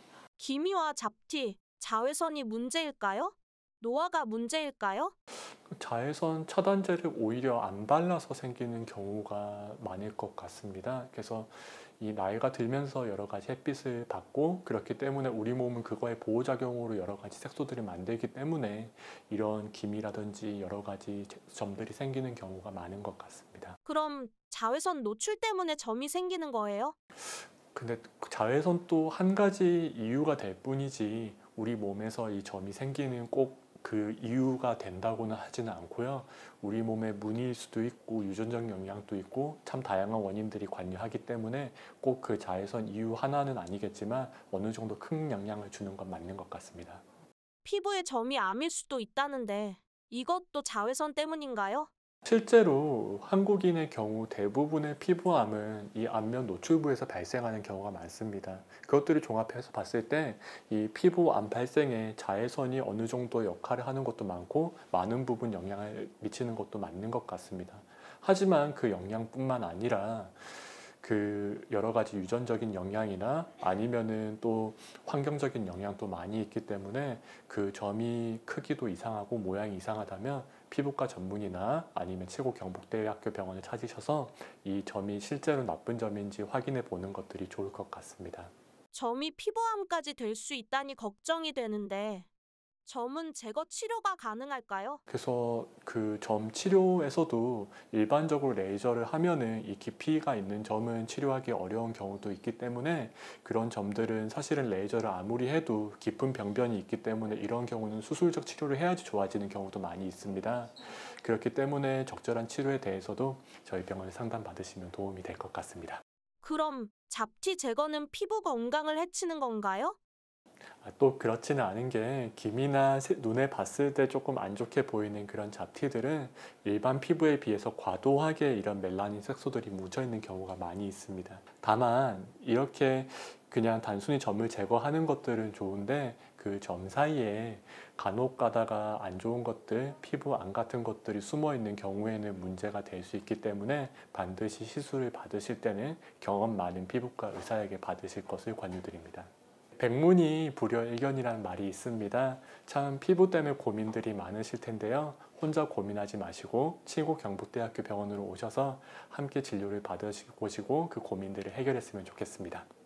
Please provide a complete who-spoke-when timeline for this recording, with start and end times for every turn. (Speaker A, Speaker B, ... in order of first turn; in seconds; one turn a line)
Speaker A: 0.4-5.1
Speaker B: 5.3-23.8
Speaker A: 23.8-26.9
Speaker B: 27.1-47.0
Speaker A: 47.6-51.9
Speaker B: 52.2-88.5
Speaker A: 88.9-92.3
Speaker A: 92.8-95.0
Speaker B: 95.1-116.0
Speaker A: 116.4-120.0
Speaker B: 120.7-162.7